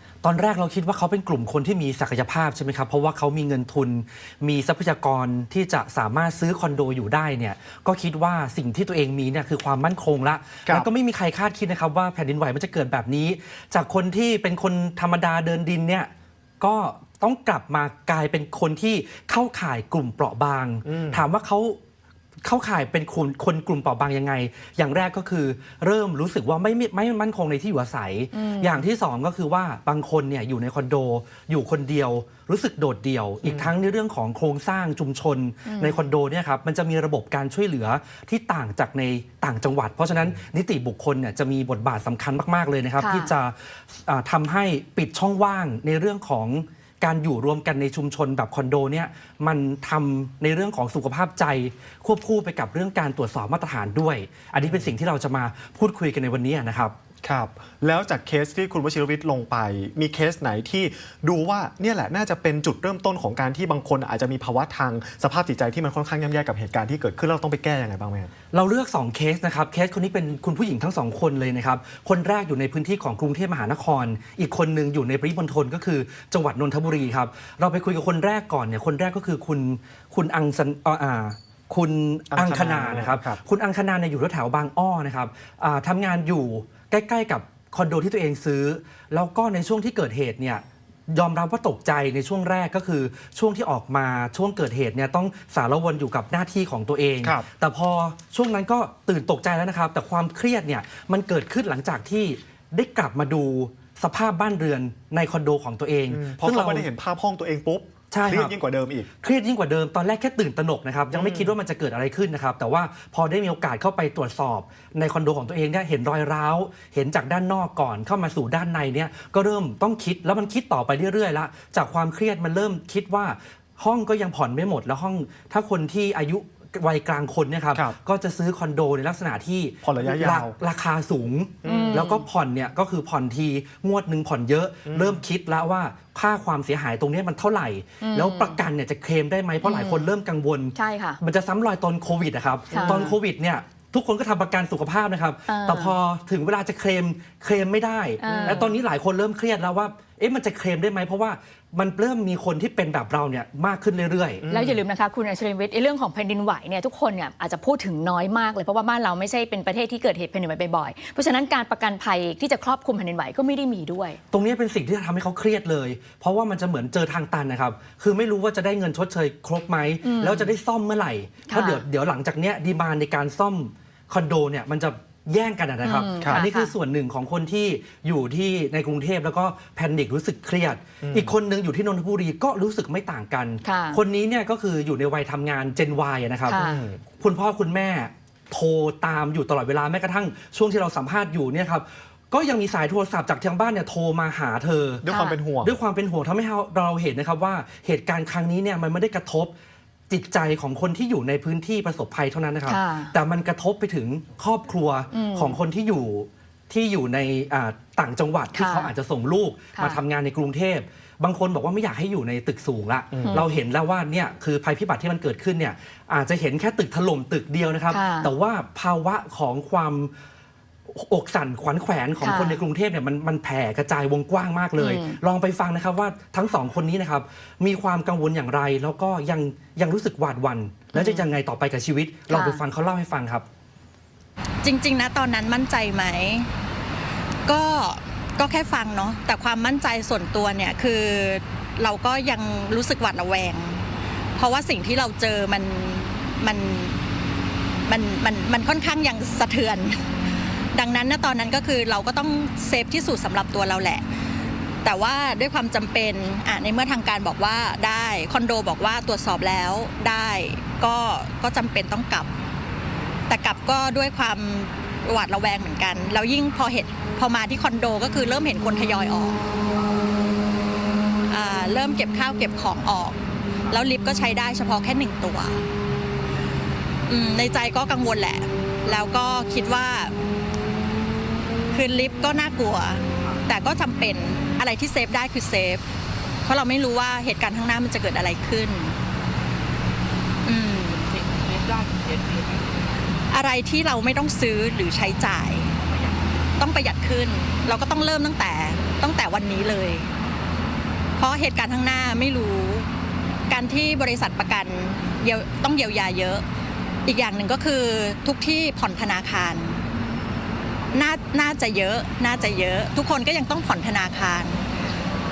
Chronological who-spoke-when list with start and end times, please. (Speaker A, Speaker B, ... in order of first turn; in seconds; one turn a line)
Speaker A: 0.2-21.8
Speaker B: 20.8-21.2
Speaker A: 22.4-56.9
Speaker C: 28.3-28.8
Speaker B: 33.4-33.7
Speaker C: 35.7-36.0
Speaker C: 43.0-43.3
Speaker B: 54.6-54.9
Speaker B: 57.2-68.3
Speaker A: 68.5-106.9
Speaker B: 82.3-83.4
Speaker B: 106.1-109.1
Speaker A: 108.1-108.6
Speaker A: 109.2-154.4
Speaker B: 111.1-111.5
Speaker B: 129.8-130.5
Speaker B: 131.6-132.0
Speaker C: 131.6-132.2
Speaker B: 134.9-135.2
Speaker C: 138.0-138.6
Speaker C: 139.6-140.1
Speaker C: 140.7-141.2
Speaker C: 142.7-143.2
Speaker C: 145.5-145.9
Speaker C: 148.2-148.8
Speaker B: 148.3-148.6
Speaker B: 154.4-154.8
Speaker C: 154.5-164.2
Speaker A: 164.3-186.6
Speaker C: 170.0-170.5
Speaker C: 171.5-171.8
Speaker C: 175.8-176.7
Speaker B: 181.0-181.3
Speaker C: 183.6-184.0
Speaker C: 186.5-186.8
Speaker B: 186.5-187.0
Speaker A: 187.2-195.1
Speaker B: 195.0-195.7
Speaker C: 195.1-195.4
Speaker A: 195.6-199.5
Speaker A: 200.1-220.1
Speaker C: 202.7-203.1
Speaker C: 205.1-205.6
Speaker C: 208.5-208.9
Speaker C: 209.7-210.0
Speaker B: 213.1-213.4
Speaker C: 217.9-218.3
Speaker A: 220.9-233.4
Speaker C: 222.2-222.6
Speaker C: 224.8-225.2
Speaker C: 230.9-231.3
Speaker C: 232.3-232.6
Speaker D: 234.6-236.5
Speaker D: 237.4-243.8
Speaker D: 244.3-247.0
Speaker D: 247.9-250.0
Speaker D: 250.7-254.1
Speaker D: 254.8-262.3
Speaker D: 263.3-269.4
Speaker D: 271.3-275.6
Speaker D: 277.1-280.1
Speaker D: 281.7-285.8
Speaker D: 286.4-289.0
Speaker D: 290.4-291.1
Speaker D: 293.3-295.7
Speaker D: 296.6-300.1
Speaker D: 301.2-302.9
Speaker D: 303.5-306.4
Speaker D: 307.1-309.8
Speaker D: 310.9-314.6